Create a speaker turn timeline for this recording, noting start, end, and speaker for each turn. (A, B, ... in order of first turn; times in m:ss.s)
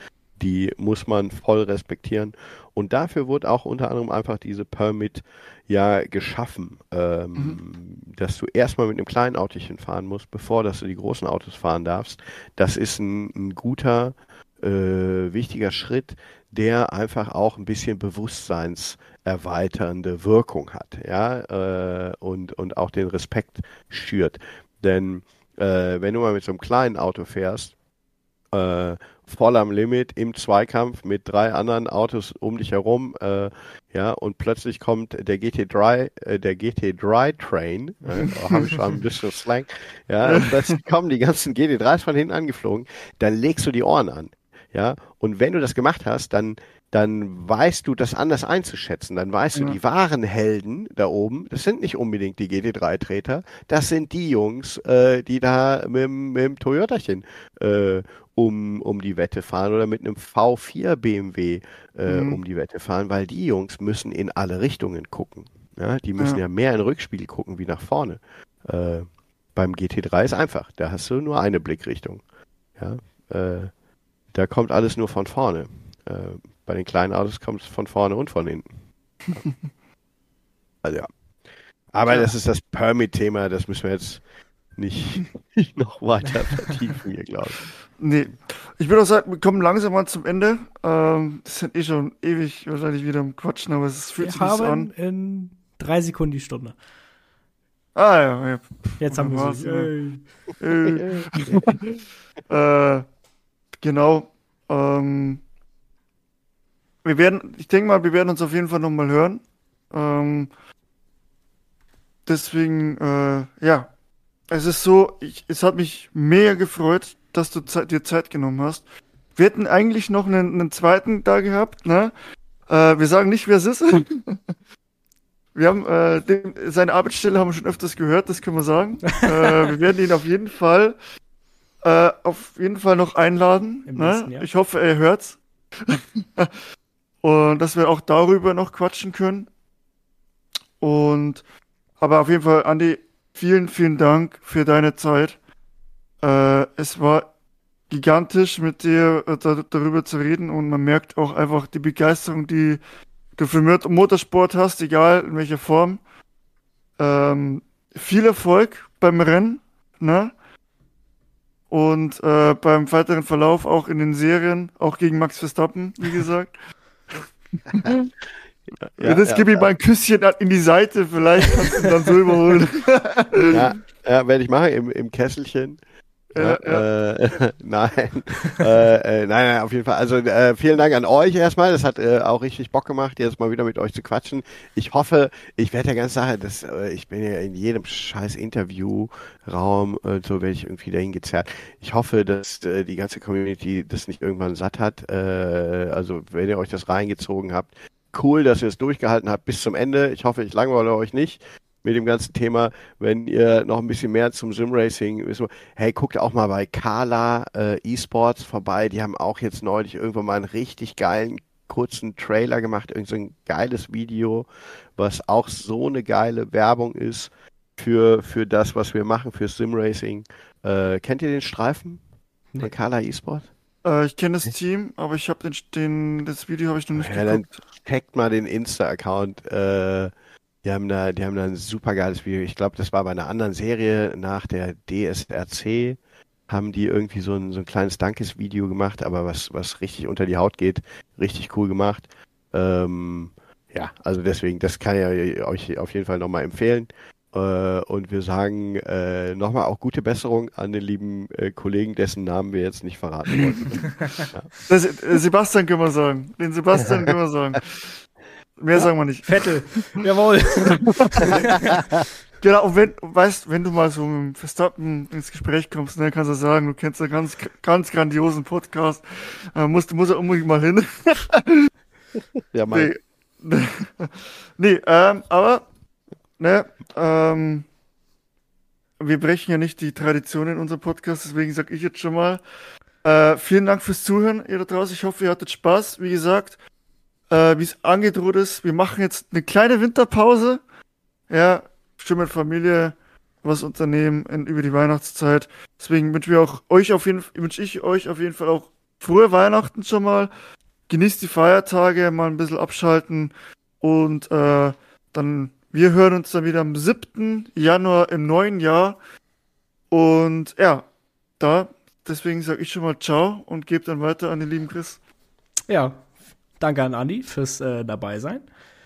0:00.4-0:27.7 A
0:28.5-1:12.2 A
0:38.2-0:38.7 B
0:40.2-0:40.8 B
1:02.1-1:02.4 B
1:12.8-1:13.7 A
1:14.3-1:18.7 A
1:20.8-1:21.1 A
1:21.9-1:24.2 A
1:22.0-1:22.3 B
1:24.7-1:27.6 A
1:28.0-1:34.9 B
1:34.2-1:36.8 C
1:38.0-1:39.9 B
1:39.0-1:40.3 C
1:40.6-1:41.8 B
1:40.9-1:41.7 A
1:42.5-1:43.0 B
1:43.8-1:45.4 B
1:47.0-1:50.5 B
1:52.2-1:53.9 B
1:54.5-1:58.8 B
1:59.3-2:02.1 B
2:02.7-2:04.4 B
2:05.5-2:11.0 B
2:11.8-2:16.5 B
2:13.8-2:14.5 C
2:17.2-2:19.5 B
2:20.8-2:21.4 B
2:22.0-2:25.4 B
2:26.2-2:27.3 B
2:27.9-2:32.8 B
2:33.4-2:36.0 B
2:37.0-2:40.3 B
2:41.7-2:46.6 B
2:47.7-2:48.1 B
2:48.8-2:49.7 A
2:49.0-2:53.7 B
2:53.5-2:55.8 A
2:56.3-2:56.8 B
2:56.4-3:42.0 A
3:42.6-3:43.5 A
3:43.8-3:47.6 B
3:46.9-3:50.1 A
3:50.6-4:14.5 A
4:14.7-4:17.9 B
4:18.6-4:19.5 B
4:19.3-4:21.8 C
4:21.2-4:21.6 B
4:22.4-4:31.7 B
4:32.5-4:32.9 A
4:32.7-4:35.7 B
4:36.4-4:37.7 B
4:39.0-4:42.4 B
4:43.0-4:46.5 B
4:47.3-4:50.6 B
4:51.3-5:00.3 B
5:00.9-5:09.0 B
5:09.9-5:10.8 B
5:11.4-5:15.0 B
5:15.7-5:18.4 C